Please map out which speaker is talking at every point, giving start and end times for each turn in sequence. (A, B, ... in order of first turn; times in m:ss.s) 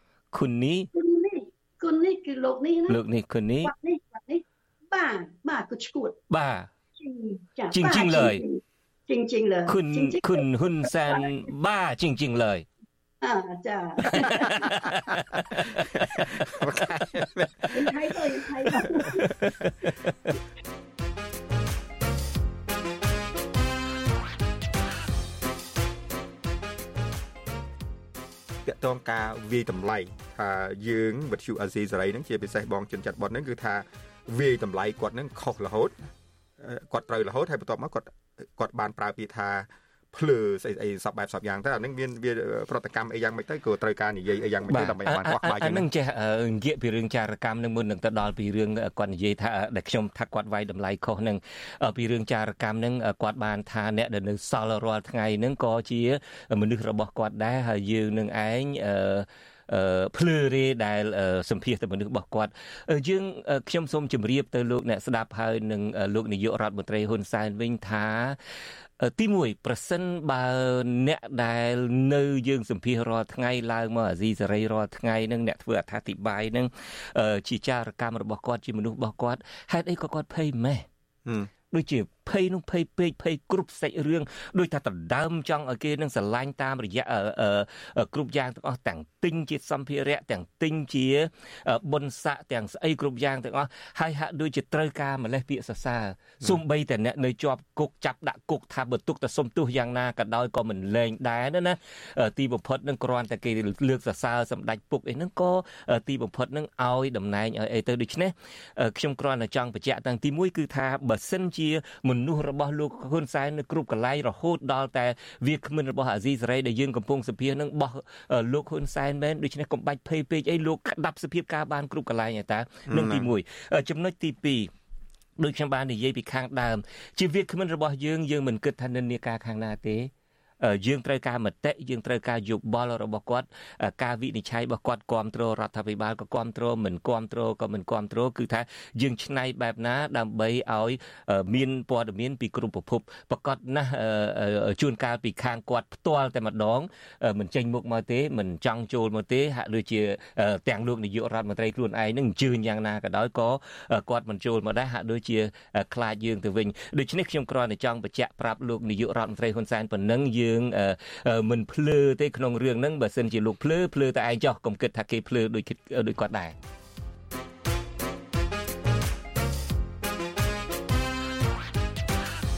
0:00.3-0:00.9 A
0:00.9-0:03.0 B
0:02.9-0:03.7 A
0:03.6-0:06.2 B
0:06.3-0:06.7 A
0:07.0-0:11.3 B
0:07.7-0:08.4 A
0:09.7-0:12.6 A
0:13.2-0:14.7 B
0:14.0-0:17.8 A
0:15.7-0:17.8 C
0:17.7-0:19.3 B
0:19.2-0:20.3 A
0:28.6-0:35.9 C
0:36.6-0:45.9 C
0:44.7-1:08.4 A
1:09.0-1:20.9 A
1:21.7-2:04.7 A
2:02.9-2:03.3 C
2:05.4-2:46.5 A